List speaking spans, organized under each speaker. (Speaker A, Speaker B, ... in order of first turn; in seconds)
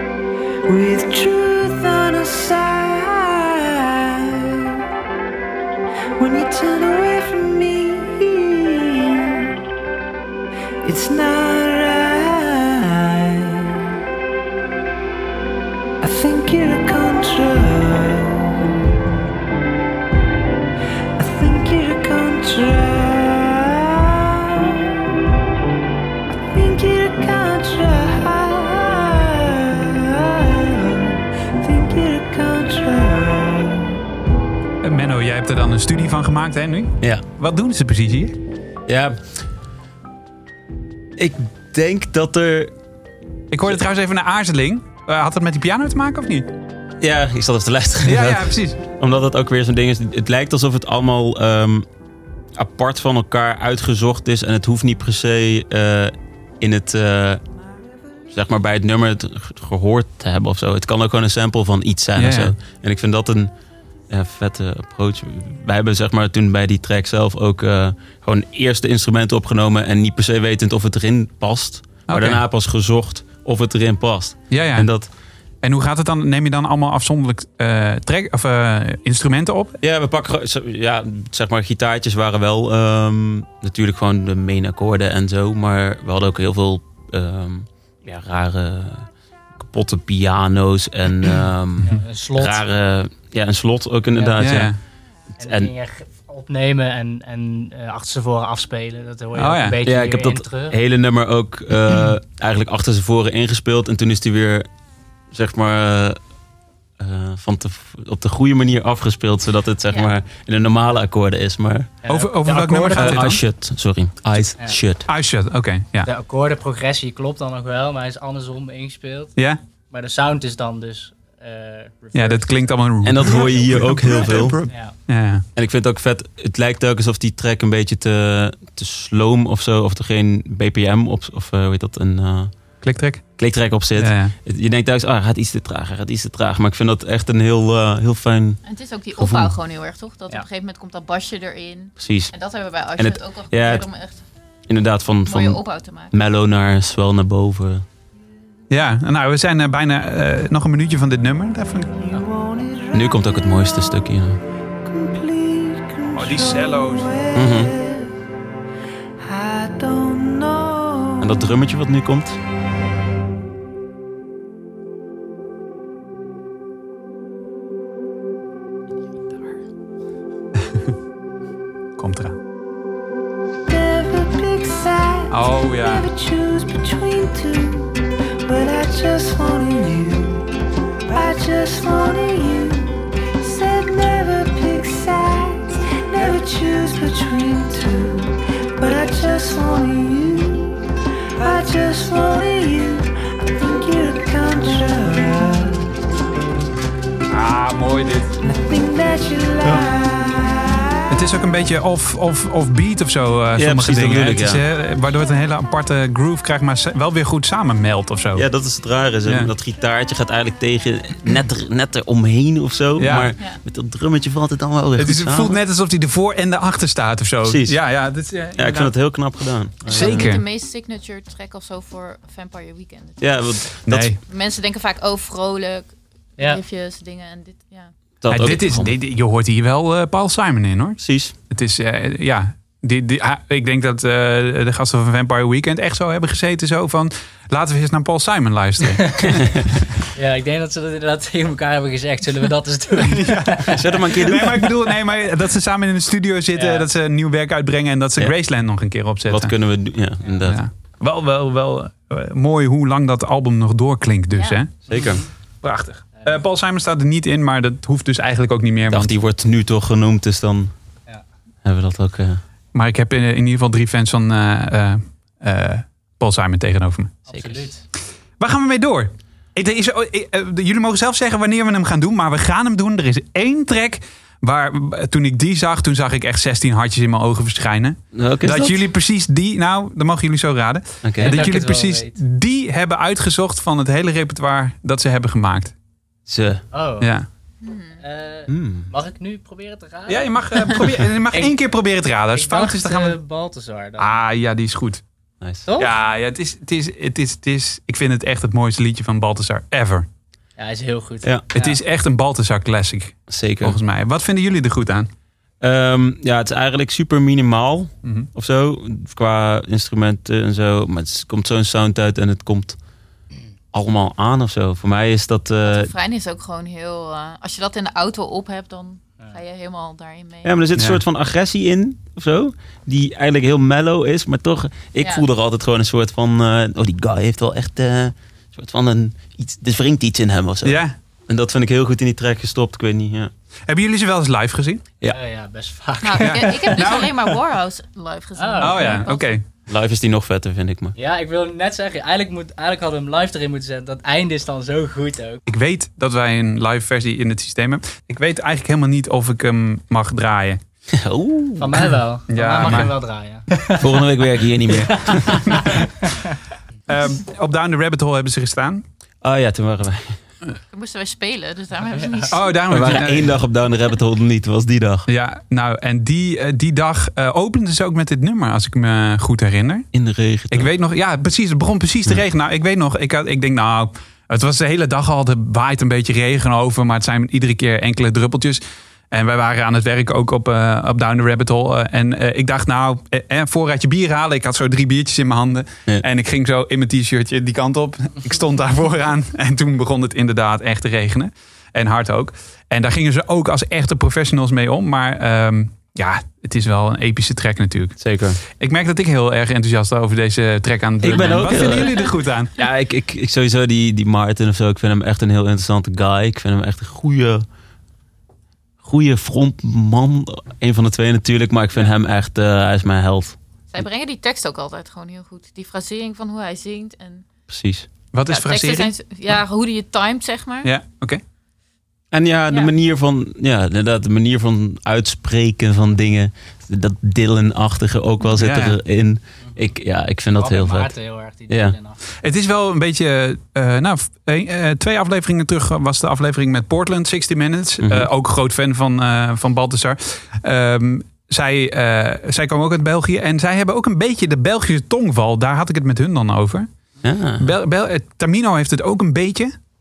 Speaker A: 0.7-4.8, 6.2-9.5, 10.8-13.8, 16.0-18.6, 21.2-24.9, 26.5-34.0, 152.0-153.2, 154.8-158.1, 159.2-161.3, 173.7-180.4, 181.1-190.8, 191.4-195.9, 198.4-201.1
Speaker B: 34.8-38.4, 43.5-46.5, 48.0-48.8, 62.2-62.5, 72.1-72.4, 74.5-74.9, 75.6-79.8, 94.4-94.8, 99.4-99.8, 112.1-113.4, 115.1-116.1, 122.2-125.5, 132.8-134.3, 148.7-152.0, 156.1-157.1, 172.0-172.4, 175.3-176.1, 197.3-198.4, 201.1-208.4, 213.0-213.3, 215.0-219.2, 219.9-220.4, 223.9-224.2, 228.3-239.6, 243.0-249.7, 250.4-259.1, 262.7-267.2, 268.4-285.7, 287.0-287.3, 290.1-293.2, 294.0-295.0, 295.8-300.1, 301.6-305.1, 308.0-308.3, 320.8-321.0, 330.6-330.9, 333.7-334.9, 336.2-337.1, 338.6-339.4, 345.5-350.6, 352.3-352.9, 356.9-358.8, 362.3-363.4, 365.1-369.9, 370.5-398.0, 398.5-402.5, 418.1-418.9, 420.6-421.2, 428.4-428.8, 432.2-449.5
Speaker C: 38.9-39.2, 41.2-42.7, 47.0-51.9, 52.5-57.4, 58.3-63.5, 64.1-75.1, 79.8-94.8, 95.4-95.7, 99.8-104.7, 105.3-106.2, 107.0-111.9, 112.9-115.1, 123.0-124.6, 125.5-132.8, 133.4-138.6, 139.1-139.5, 142.0-143.9, 144.7-147.8, 152.9-154.4, 157.3-157.7, 161.2-162.4, 203.6-204.6, 208.3-215.6, 217.4-217.9, 218.5-220.4, 223.2-224.1, 228.2-228.9, 231.0-231.3, 243.7-244.6, 249.3-250.6, 254.9-255.2, 258.9-260.7, 261.6-262.4, 267.3-267.7, 278.1-278.7, 281.0-281.5, 286.3-286.7, 288.5-288.9, 295.4-295.7, 303.3-303.8, 305.6-312.8, 313.7-315.9, 320.4-333.3, 339.7-340.9, 350.9-351.9, 353.8-355.6, 359.2-360.2, 362.7-365.1, 369.9-370.7, 398.0-398.4, 401.0-407.5, 408.8-413.4, 417.5-417.9, 422.1-431.8, 437.8-438.1, 447.0-447.5
Speaker D: 91.8-92.6, 94.2-94.7, 95.4-100.8, 112.0-113.3, 116.0-119.4, 119.9-124.0, 124.7-124.9, 240.2-243.8, 246.6-246.9, 254.9-255.3, 267.3-267.8, 281.2-282.2, 286.7-287.1, 288.0-291.5, 292.3-294.1, 295.6-295.9, 300.6-301.8, 335.1-337.1, 338.4-339.0, 340.9-345.4, 351.6-353.8, 355.0-356.3, 362.0-362.3, 430.4-432.0
Speaker E: 138.7-144.2, 145.2-146.1, 219.9-223.4, 224.3-227.9, 287.6-288.0, 315.7-320.5, 336.0-339.4, 360.7-362.6, 413.7-417.3, 418.3-420.7